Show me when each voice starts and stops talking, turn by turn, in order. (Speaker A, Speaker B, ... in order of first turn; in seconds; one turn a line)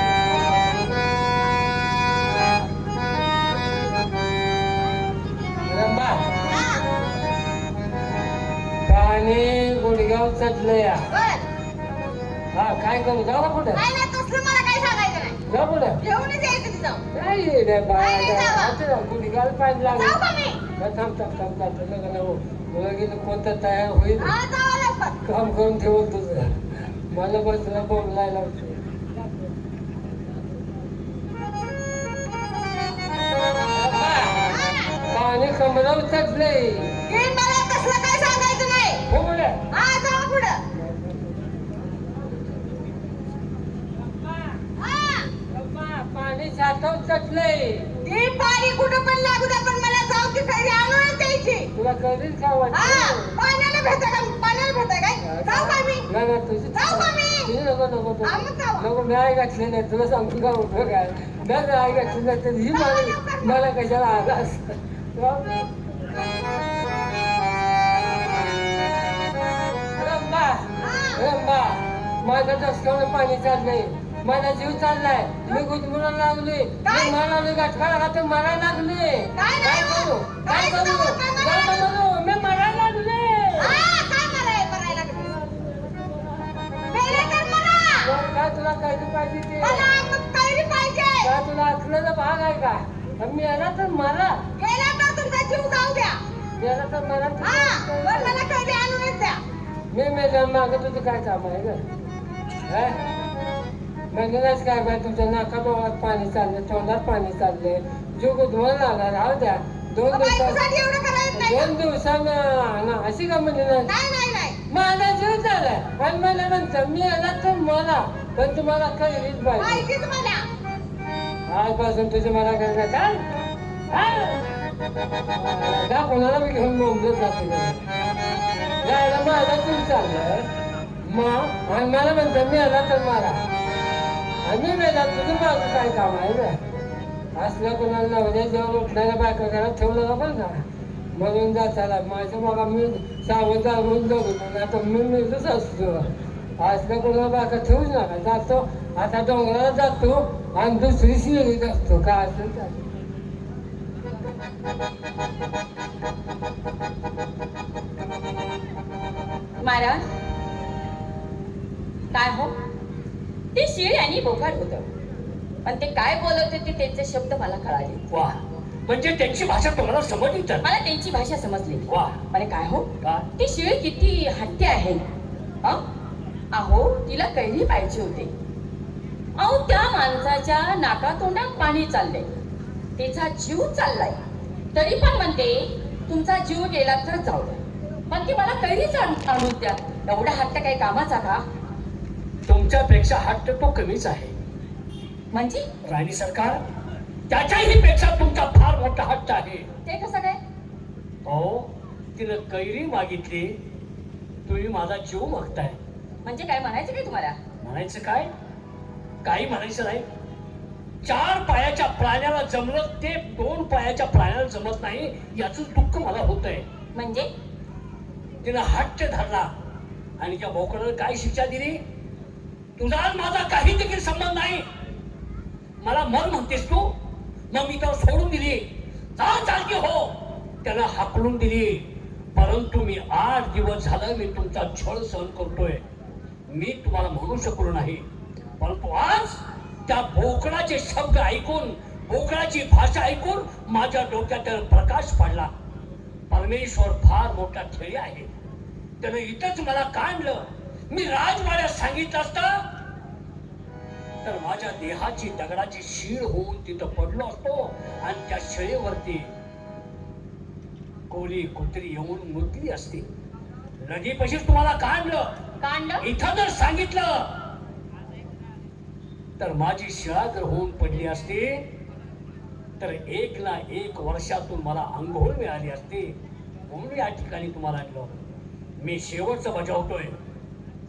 Speaker A: 5.7-6.3
Speaker B: 6.5-6.8
Speaker A: 8.8-11.1
Speaker B: 11.1-11.4
Speaker A: 12.5-13.8
Speaker B: 13.8-15.3
Speaker A: 15.5-16.0
Speaker B: 16.0-17.0
Speaker A: 17.1-20.2
Speaker B: 17.9-18.8
Speaker B: 19.9-20.6
Speaker A: 20.7-24.4
Speaker B: 24.2-25.1
Speaker A: 25.2-26.6
Speaker A: 27.1-28.8
Speaker A: 33.7-34.5
Speaker A: 35.1-36.9
Speaker B: 37.0-39.0
Speaker A: 39.1-39.6
Speaker B: 39.7-40.6
Speaker B: 44.8-45.3
Speaker A: 45.5-47.9
Speaker B: 48.0-51.7
Speaker A: 51.7-53.4
Speaker B: 52.7-56.0
Speaker A: 55.2-65.7
Speaker B: 56.7-57.5
Speaker B: 58.2-58.8
Speaker B: 62.7-63.6
Speaker A: 70.0-83.8
Speaker B: 70.8-71.2
Speaker B: 76.8-77.2
Speaker B: 79.3-81.9
Speaker B: 83.6-85.3
Speaker A: 85.3-86.4
Speaker B: 86.9-88.1
Speaker A: 88.0-89.9
Speaker B: 89.6-91.3
Speaker A: 91.2-94.4
Speaker B: 94.6-96.2
Speaker A: 96.6-98.4
Speaker B: 97.4-99.4
Speaker A: 99.9-101.8
Speaker A: 102.7-103.0
Speaker A: 104.1-110.6
Speaker B: 110.1-111.7
Speaker A: 111.3-113.9
Speaker B: 113.8-114.6
Speaker A: 114.7-119.8
Speaker B: 119.6-120.5
Speaker A: 121.5-123.2
Speaker A: 123.9-124.3
Speaker A: 125.3-127.8
Speaker A: 128.8-130.5
Speaker A: 131.0-133.4
Speaker A: 134.4-136.6
Speaker A: 137.3-140.6
Speaker A: 141.1-152.8
Speaker C: 159.6-160.0
Speaker C: 162.1-162.5
Speaker C: 163.5-164.9
Speaker C: 165.6-168.2
Speaker D: 168.1-170.7
Speaker C: 170.6-175.0
Speaker D: 171.9-172.2
Speaker C: 176.5-178.3
Speaker C: 179.4-182.3
Speaker C: 183.0-184.2
Speaker C: 184.7-191.4
Speaker D: 192.5-194.3
Speaker C: 195.3-195.7
Speaker D: 195.8-196.6
Speaker D: 197.3-199.7
Speaker C: 199.8-200.4
Speaker D: 201.2-203.6
Speaker D: 204.4-205.8
Speaker C: 206.2-207.4
Speaker D: 207.6-208.3
Speaker D: 209.2-210.1
Speaker D: 211.0-216.7
Speaker C: 216.9-217.3
Speaker D: 218.4-219.5
Speaker D: 220.2-221.8
Speaker D: 222.8-224.6
Speaker D: 225.8-226.9
Speaker D: 227.5-235.8
Speaker D: 236.5-238.1
Speaker D: 238.6-245.5
Speaker D: 246.3-248.3
Speaker D: 249.0-252.6
Speaker D: 254.2-259.3
Speaker D: 261.1-263.1
Speaker D: 263.8-265.3
Speaker C: 265.6-266.1
Speaker D: 266.0-267.4
Speaker D: 269.4-271.6
Speaker D: 272.8-276.1
Speaker D: 276.7-278.2
Speaker D: 278.8-280.2